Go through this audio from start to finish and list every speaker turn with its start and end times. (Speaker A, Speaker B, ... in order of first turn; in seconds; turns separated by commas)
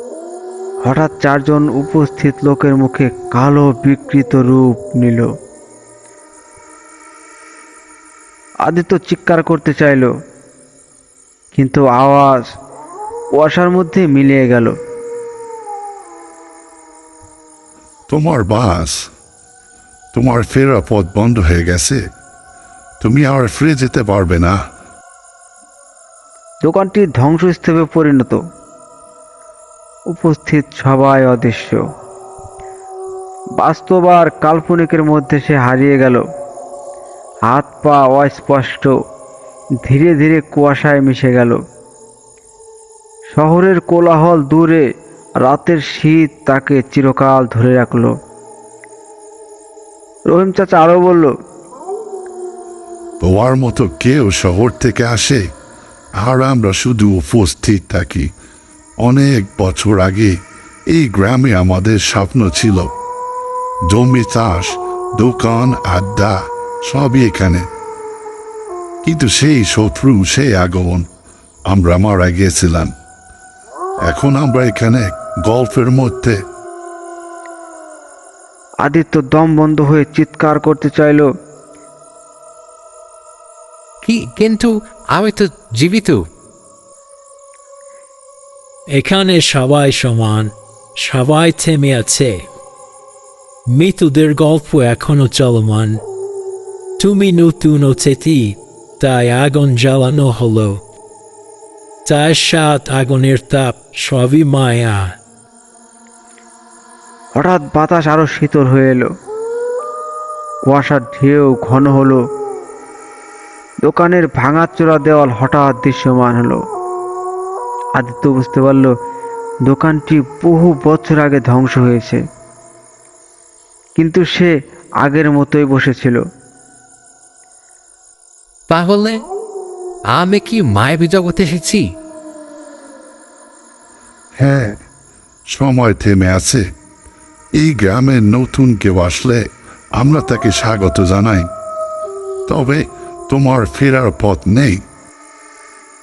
Speaker A: 0.8-5.3, Speaker A: 8.7-10.1, Speaker A: 11.5-12.4, Speaker A: 13.3-14.7, Speaker B: 18.1-19.0, Speaker B: 20.1-22.0, Speaker B: 23.0-24.6, Speaker A: 26.6-28.4, Speaker A: 30.1-31.8, Speaker A: 33.6-36.2, Speaker A: 37.5-38.9, Speaker A: 39.8-41.6, Speaker A: 43.3-44.8, Speaker A: 45.4-48.1, Speaker A: 50.3-51.3, Speaker B: 53.2-55.4, Speaker B: 56.2-58.3, Speaker B: 59.0-60.4, Speaker B: 60.9-62.9, Speaker B: 63.9-67.7, Speaker B: 69.0-71.0, Speaker B: 71.7-72.9, Speaker B: 74.0-76.4, Speaker A: 78.8-81.3, Speaker C: 84.0-86.2, Speaker D: 88.9-92.5, Speaker D: 93.7-96.0, Speaker D: 97.0-100.8, Speaker D: 102.0-105.1, Speaker A: 107.3-109.1, Speaker A: 110.7-112.2, Speaker A: 113.8-116.6, Speaker A: 118.0-118.9, Speaker A: 119.7-122.2, Speaker A: 124.0-124.5, Speaker A: 125.0-126.2, Speaker C: 128.7-129.2, Speaker C: 130.1-131.8, Speaker B: 134.4-134.8, Speaker B: 135.5-136.6, Speaker B: 137.6-139.4, Speaker B: 139.9-141.5, Speaker B: 142.5-144.8